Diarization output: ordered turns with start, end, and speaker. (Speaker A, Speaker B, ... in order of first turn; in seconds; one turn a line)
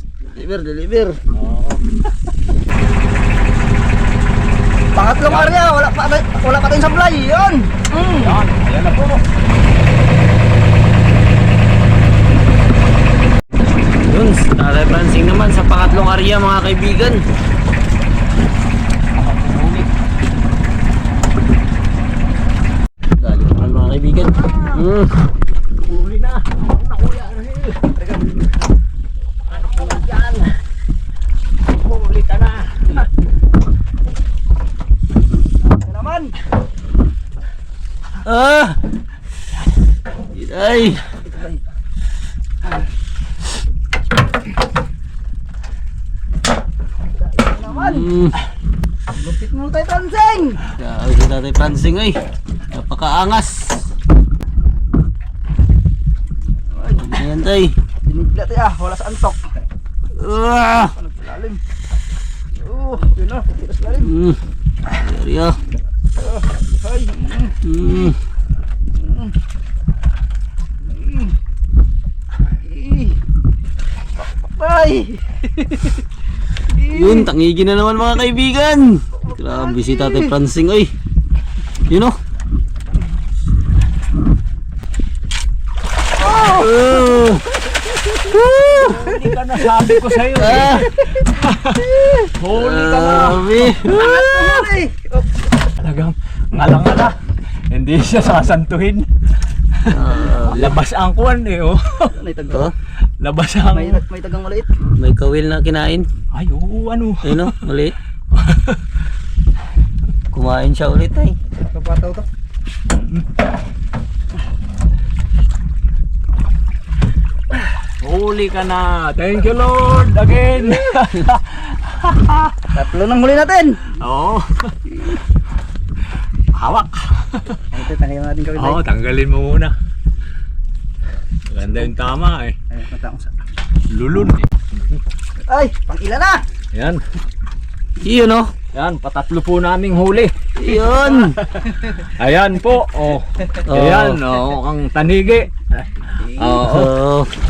Speaker A: 0.2-1.2
Speaker B: 1.3-1.8
Speaker C: 5.0-8.4
Speaker B: 5.3-5.6
Speaker B: 8.2-9.2
Speaker A: 14.0-17.2
Speaker B: 19.2-19.9
Speaker A: 23.2-25.1
Speaker B: 24.4-24.8
Speaker B: 25.9-27.8
Speaker C: 28.0-28.3
Speaker B: 29.5-30.6
Speaker B: 31.7-33.1
Speaker C: 35.6-36.3
Speaker A: 38.2-38.8
Speaker A: 40.4-41.0
Speaker C: 41.3-41.6
Speaker C: 47.2-48.1
Speaker A: 47.8-48.4
Speaker C: 49.1-50.6
Speaker A: 50.8-52.1
Speaker A: 52.7-53.9
Speaker C: 56.7-57.2
Speaker A: 57.0-57.8
Speaker C: 58.0-59.4
Speaker A: 60.2-60.9
Speaker C: 60.9-61.6
Speaker C: 62.6-64.1
Speaker A: 64.0-64.4
Speaker A: 64.9-65.6
Speaker C: 66.2-67.6
Speaker A: 67.6-68.2
Speaker C: 69.0-69.3
Speaker C: 70.9-71.3
Speaker C: 72.6-73.2
Speaker C: 74.4-76.0
Speaker C: 76.7-77.3
Speaker A: 76.9-80.9
Speaker C: 79.2-80.4
Speaker A: 81.9-82.2
Speaker C: 86.2-87.2
Speaker A: 86.4-87.5
Speaker A: 88.1-89.1
Speaker B: 88.8-93.8
Speaker A: 90.3-91.0
Speaker A: 92.5-94.7
Speaker C: 93.8-95.5
Speaker B: 95.8-97.2
Speaker B: 97.7-99.1
Speaker B: 99.8-102.2
Speaker A: 99.8-100.7
Speaker C: 102.1-102.7
Speaker B: 103.2-104.0
Speaker C: 103.7-104.7
Speaker A: 105.0-106.1
Speaker B: 106.3-107.6
Speaker A: 107.2-108.0
Speaker B: 108.3-108.8
Speaker A: 110.3-111.4
Speaker C: 111.7-112.3
Speaker B: 118.0-122.7
Speaker C: 122.7-123.8
Speaker B: 124.0-124.8
Speaker B: 126.5-127.6
Speaker C: 127.7-128.8
Speaker B: 128.6-129.7
Speaker B: 131.5-132.5
Speaker C: 132.7-133.3
Speaker B: 133.9-135.0
Speaker C: 135.5-136.4
Speaker B: 136.7-137.0
Speaker A: 138.0-138.5
Speaker B: 138.7-140.3
Speaker A: 140.6-141.4
Speaker C: 140.8-141.3
Speaker B: 141.5-146.9
Speaker A: 143.7-144.2
Speaker A: 146.6-147.3